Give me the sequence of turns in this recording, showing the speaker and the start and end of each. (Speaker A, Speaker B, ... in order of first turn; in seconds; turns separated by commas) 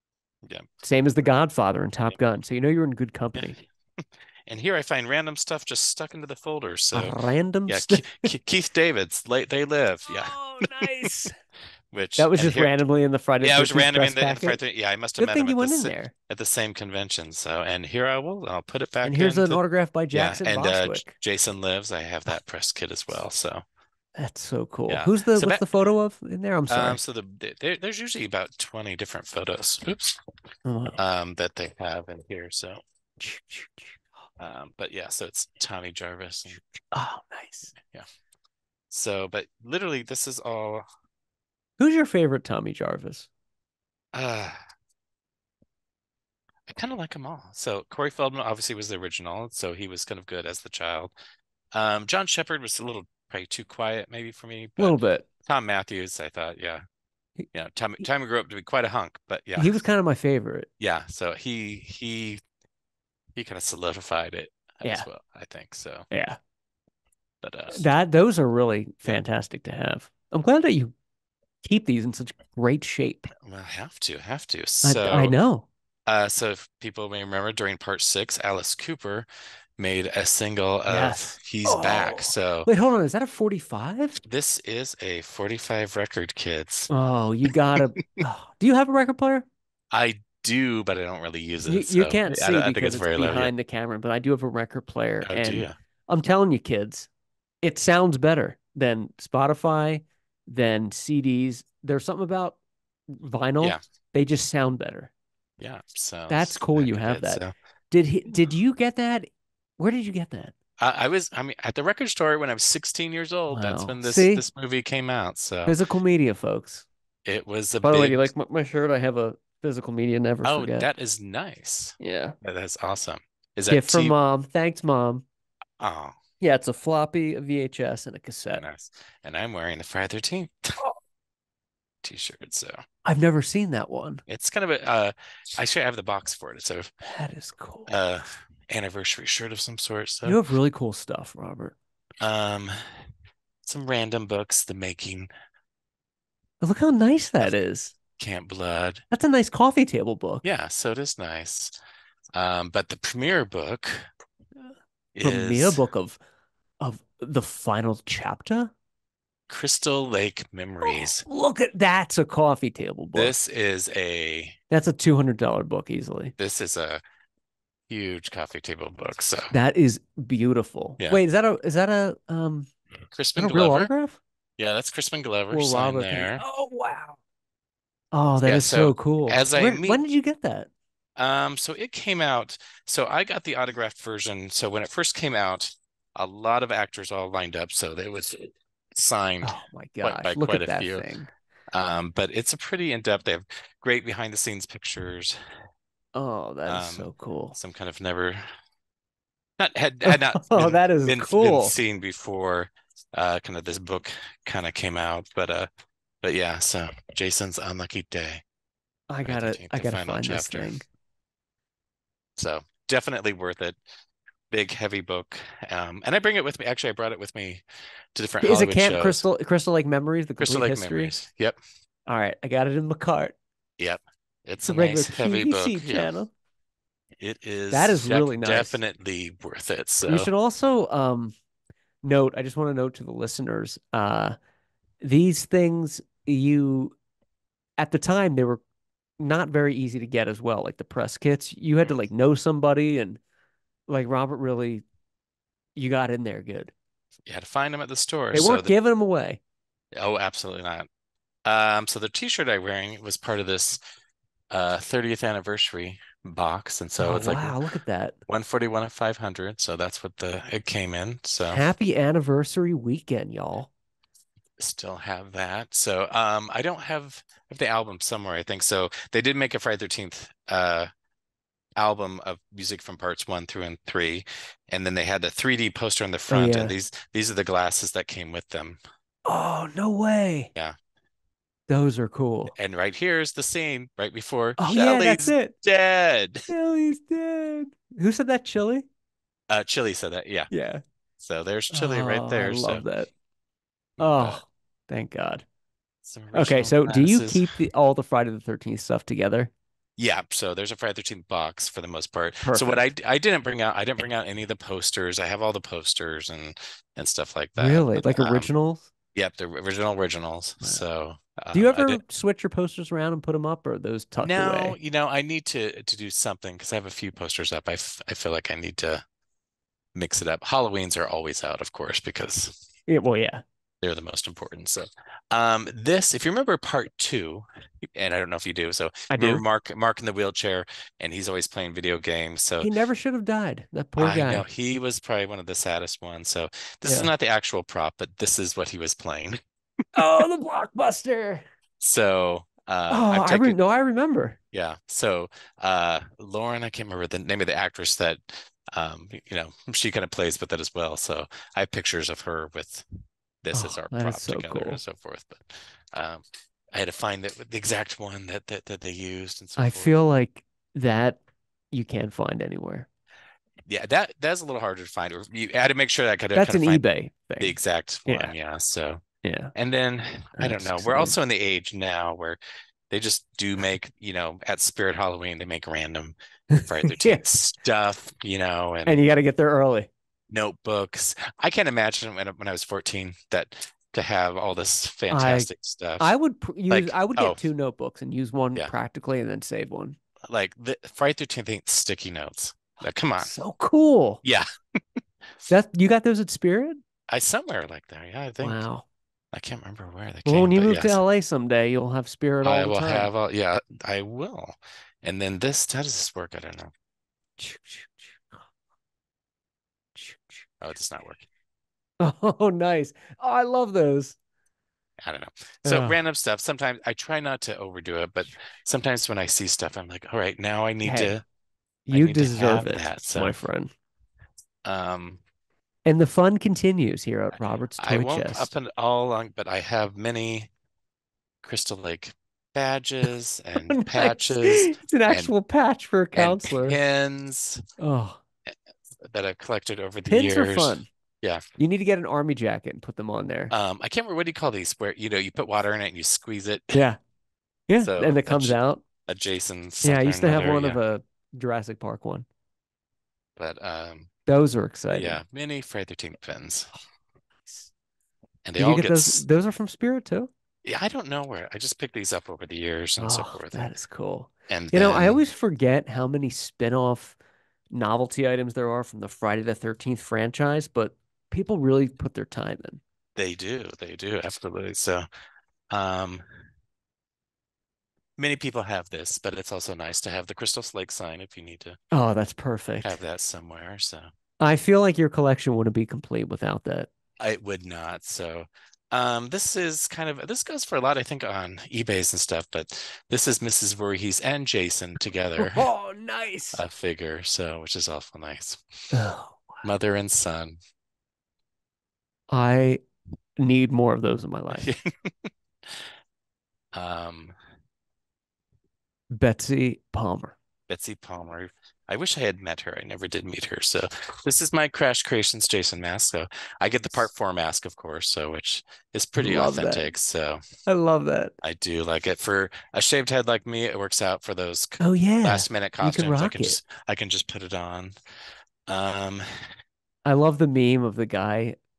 Speaker A: 0.8-3.6, Speaker B: 3.4-11.1, Speaker A: 6.9-8.3, Speaker A: 10.1-11.3, Speaker B: 11.9-12.8, Speaker A: 12.2-14.6, Speaker B: 13.4-23.6, Speaker A: 15.2-16.1, Speaker A: 19.0-21.1, Speaker A: 24.1-27.0, Speaker B: 24.9-25.7, Speaker B: 26.7-30.2, Speaker A: 30.6-31.0, Speaker B: 31.0-32.8, Speaker A: 33.2-34.0, Speaker B: 34.4-36.6, Speaker A: 36.9-37.8, Speaker B: 38.9-40.9, Speaker A: 41.8-43.3, Speaker B: 44.1-44.6, Speaker B: 46.7-51.1, Speaker B: 51.7-56.8, Speaker A: 54.8-55.2, Speaker B: 57.5-59.8, Speaker A: 59.6-60.7, Speaker B: 60.8-62.4, Speaker B: 63.4-66.1, Speaker A: 66.1-66.4, Speaker B: 67.4-67.8, Speaker A: 67.7-70.9, Speaker A: 71.6-73.3, Speaker B: 73.4-75.3, Speaker A: 74.8-75.7, Speaker B: 76.1-79.3, Speaker B: 79.8-82.7, Speaker A: 80.9-84.2, Speaker B: 84.2-86.9, Speaker A: 86.9-89.5, Speaker B: 89.9-93.5, Speaker A: 91.7-97.1, Speaker B: 95.2-95.8, Speaker A: 97.6-102.6, Speaker A: 103.1-105.1, Speaker B: 105.6-107.5, Speaker A: 106.3-110.5, Speaker B: 110.8-115.8, Speaker A: 113.5-114.4, Speaker A: 115.7-116.9, Speaker B: 117.2-118.3, Speaker A: 117.8-120.9, Speaker B: 120.4-124.2, Speaker A: 122.0-122.4, Speaker A: 123.7-125.2, Speaker B: 125.8-126.2, Speaker A: 126.4-128.6, Speaker B: 128.5-130.9, Speaker B: 132.0-132.8, Speaker A: 133.1-134.2, Speaker B: 134.3-136.9, Speaker A: 137.0-137.9, Speaker B: 137.9-140.4, Speaker A: 140.2-141.8, Speaker B: 142.2-143.1, Speaker B: 143.6-145.3, Speaker A: 146.6-147.9, Speaker B: 148.2-149.0, Speaker A: 149.1-150.4, Speaker B: 150.4-151.8, Speaker B: 152.3-154.1, Speaker B: 155.1-155.8, Speaker A: 155.2-156.2, Speaker A: 156.8-158.7, Speaker B: 159.5-161.2, Speaker A: 160.8-163.3, Speaker B: 163.1-164.6, Speaker A: 164.7-166.3, Speaker B: 166.4-167.0, Speaker B: 167.9-169.5, Speaker A: 169.5-172.7, Speaker B: 173.1-173.9, Speaker A: 173.4-174.2, Speaker B: 174.6-176.4, Speaker A: 175.5-177.2, Speaker A: 178.1-180.7, Speaker B: 178.4-180.0, Speaker B: 181.2-191.1, Speaker A: 189.4-191.3, Speaker B: 191.7-195.4, Speaker A: 196.1-197.6, Speaker B: 196.7-198.4, Speaker B: 199.6-205.7, Speaker A: 200.1-201.7, Speaker B: 206.2-208.4, Speaker A: 209.1-210.8, Speaker B: 209.2-210.8, Speaker B: 212.4-213.8, Speaker B: 214.5-217.6, Speaker B: 218.1-219.2, Speaker A: 218.4-221.1, Speaker B: 220.4-221.6, Speaker A: 222.1-223.3, Speaker B: 223.8-226.1, Speaker A: 224.6-226.3, Speaker B: 227.2-230.3, Speaker A: 227.7-228.8, Speaker A: 230.0-231.3, Speaker A: 232.0-234.4, Speaker A: 235.0-236.9, Speaker A: 237.8-238.6, Speaker A: 239.2-243.2, Speaker A: 243.9-244.8, Speaker A: 245.8-246.7, Speaker B: 247.3-248.7, Speaker A: 248.3-249.4, Speaker B: 249.9-250.9, Speaker B: 251.5-253.8, Speaker B: 254.5-257.6, Speaker A: 257.0-258.1, Speaker B: 258.3-261.6, Speaker A: 261.5-263.7, Speaker B: 264.6-270.9, Speaker B: 271.8-278.8, Speaker A: 276.3-276.7, Speaker A: 279.2-280.5, Speaker A: 281.7-282.5, Speaker B: 282.5-286.5, Speaker A: 284.6-285.5, Speaker A: 286.5-288.9, Speaker B: 289.5-290.5, Speaker A: 290.5-290.8, Speaker B: 291.2-292.9, Speaker A: 291.7-293.1, Speaker B: 294.0-294.4, Speaker A: 294.0-295.4, Speaker B: 296.1-297.5, Speaker A: 296.3-299.5, Speaker B: 300.0-308.5, Speaker A: 302.4-302.8, Speaker A: 307.6-308.9, Speaker B: 309.1-312.0, Speaker A: 311.5-314.8, Speaker B: 314.2-319.0, Speaker B: 319.9-322.6, Speaker A: 322.9-323.4, Speaker B: 323.8-332.7, Speaker A: 329.1-329.4, Speaker A: 332.6-334.4, Speaker B: 334.0-339.4, Speaker A: 336.9-337.1, Speaker A: 339.9-341.4, Speaker B: 341.8-343.6, Speaker A: 342.9-344.4, Speaker B: 344.5-352.9, Speaker B: 353.4-360.0, Speaker A: 353.5-354.8, Speaker A: 359.6-362.9, Speaker B: 363.7-366.8, Speaker A: 366.4-368.3, Speaker B: 367.4-369.0, Speaker A: 369.2-369.5, Speaker B: 369.6-379.0, Speaker A: 370.4-371.1, Speaker A: 376.5-377.2, Speaker A: 378.9-379.9, Speaker B: 380.3-386.1, Speaker A: 385.1-385.5, Speaker A: 386.0-390.0, Speaker B: 386.7-387.4, Speaker B: 390.3-393.3, Speaker A: 393.2-394.2, Speaker A: 395.5-396.8, Speaker B: 397.1-398.6, Speaker A: 398.4-398.8, Speaker B: 399.3-401.0, Speaker A: 400.2-403.1, Speaker B: 402.4-406.7, Speaker A: 407.4-408.2, Speaker A: 409.9-410.5, Speaker B: 410.6-411.3, Speaker A: 412.0-414.2, Speaker B: 415.0-421.2, Speaker A: 415.6-416.0, Speaker A: 420.8-421.2, Speaker A: 421.9-423.7, Speaker B: 421.9-423.3, Speaker B: 424.6-425.2, Speaker A: 425.9-428.5, Speaker B: 427.4-430.5, Speaker B: 431.4-435.3, Speaker A: 433.6-436.8, Speaker B: 436.1-437.6, Speaker A: 437.8-438.2, Speaker B: 438.5-441.4, Speaker A: 440.1-440.9, Speaker A: 441.6-443.5, Speaker B: 443.5-446.8, Speaker A: 446.7-447.0, Speaker A: 447.7-448.8, Speaker B: 447.8-448.5, Speaker B: 449.1-450.8, Speaker A: 449.8-452.2, Speaker B: 453.4-454.1, Speaker A: 454.2-455.2, Speaker B: 454.9-456.7, Speaker B: 458.4-459.2, Speaker A: 458.6-460.3, Speaker B: 460.6-463.7, Speaker A: 463.0-467.2, Speaker B: 464.5-465.2, Speaker A: 467.7-472.8, Speaker B: 473.2-475.1, Speaker B: 475.7-476.2, Speaker B: 478.2-481.8, Speaker A: 481.9-483.0, Speaker B: 482.8-484.1, Speaker A: 484.4-486.9, Speaker B: 487.2-495.7, Speaker A: 495.4-496.6, Speaker B: 496.5-498.6, Speaker A: 498.9-499.6, Speaker B: 499.6-500.6, Speaker A: 502.3-502.8, Speaker A: 503.4-504.7, Speaker B: 504.5-505.8, Speaker B: 506.7-507.4, Speaker A: 509.1-510.3, Speaker B: 510.7-520.4, Speaker A: 519.2-519.9, Speaker A: 520.7-521.3, Speaker B: 521.4-528.0, Speaker A: 524.8-526.6, Speaker B: 528.7-529.5, Speaker A: 530.0-531.6